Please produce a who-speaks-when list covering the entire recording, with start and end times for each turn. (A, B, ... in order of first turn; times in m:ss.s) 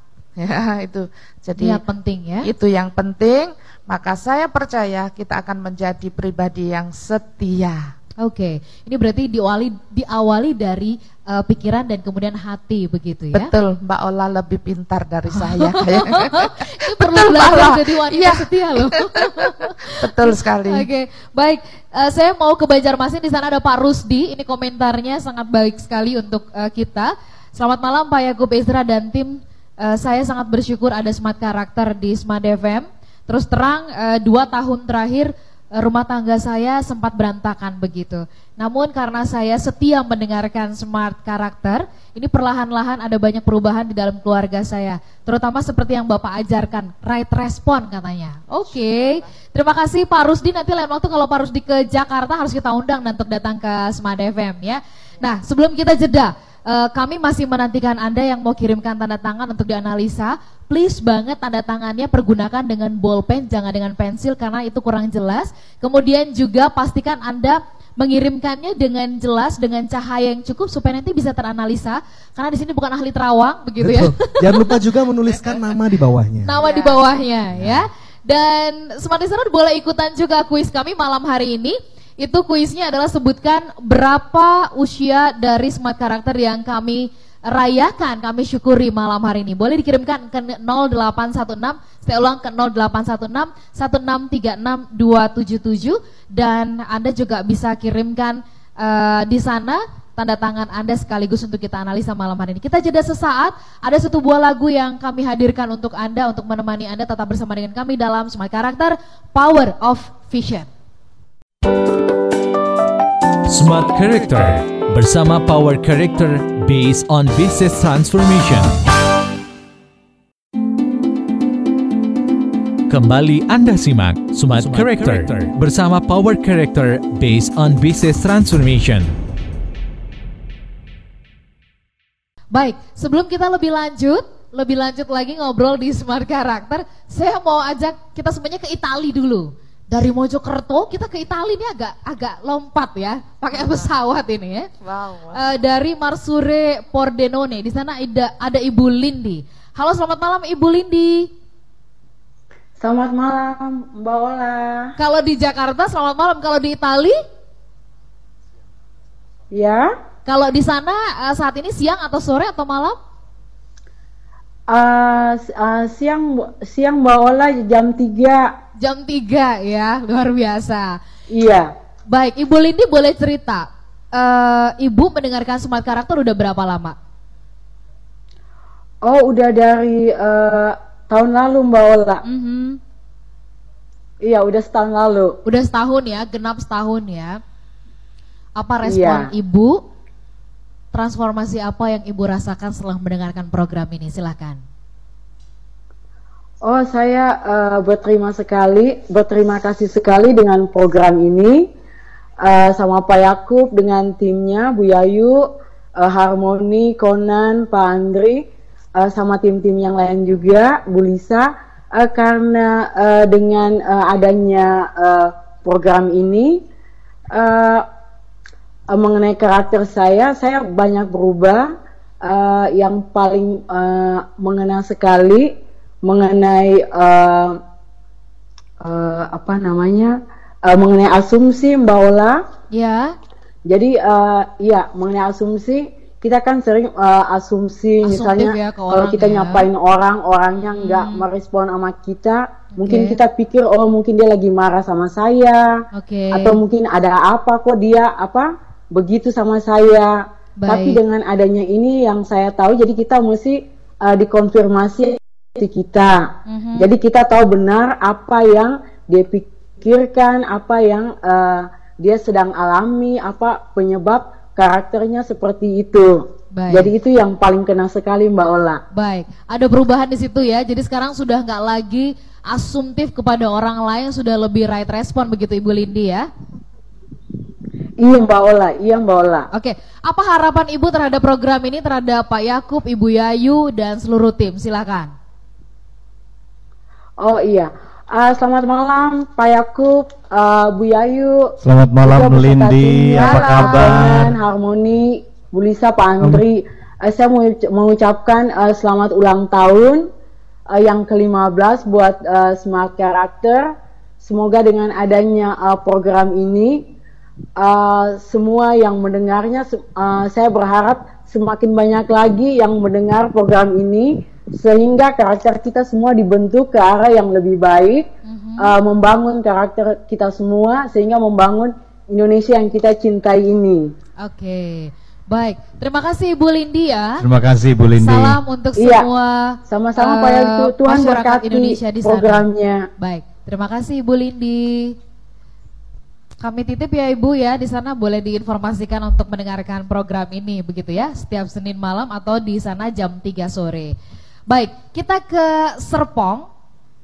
0:00.4-0:01.8 A
0:01.6-0:02.5 B
0:02.4-0:07.9 A
0:08.2-0:13.5 B
0:13.3-0:20.9 A
0:15.3-1:14.7 B
0:48.7-0:49.2 A
1:13.8-1:16.6 C
1:16.4-1:50.7 B
1:16.6-1:16.9 A
1:17.6-1:17.8 C
1:53.5-1:58.8 D
2:02.9-2:09.2 D
2:04.6-2:05.2 E
2:12.5-2:24.7 B
2:23.5-2:23.9 A
2:24.8-2:25.4 A
2:25.3-2:31.3 B
2:32.8-2:34.9 F
2:35.0-2:37.2 B
2:39.5-2:39.9 F
2:40.3-2:43.0 B
2:44.7-2:48.6 F
2:48.8-2:51.0 B
2:51.3-2:51.7 F
2:52.1-2:57.0 B
2:59.0-3:02.2 F
3:02.2-3:02.8 B
3:04.2-3:05.4 F
3:05.4-3:07.4 B
3:08.6-3:09.8 B
3:08.8-3:09.3 F
3:10.9-3:14.6 B
3:16.6-3:21.7 F
3:22.4-3:36.6 F
3:37.3-3:37.9 F
3:38.9-3:47.6 F
3:48.8-3:52.4 F
3:52.7-3:53.2 B
3:53.7-4:05.8 F
3:58.0-3:59.7 B
4:00.8-4:01.3 B
4:02.8-4:03.2 B
4:06.0-4:06.6 B
4:06.3-4:28.8 F
4:10.6-4:11.0 B
4:16.5-4:16.9 B
4:26.5-4:26.9 B
4:28.9-4:36.3 B
4:38.0-4:39.5 F
4:39.5-4:45.1 B
4:47.2-5:00.1 F
4:51.6-4:54.4 E
5:00.7-5:03.7 F
5:04.2-5:06.9 F
5:07.6-5:23.9 F
5:18.2-5:18.8 B
5:24.2-5:27.2 B
5:27.2-5:28.4 E
5:28.0-5:32.4 B
5:28.8-5:29.1 F
5:29.7-5:32.9 F
5:33.0-5:35.0 B
5:36.4-5:44.0 B
5:44.5-5:46.5 B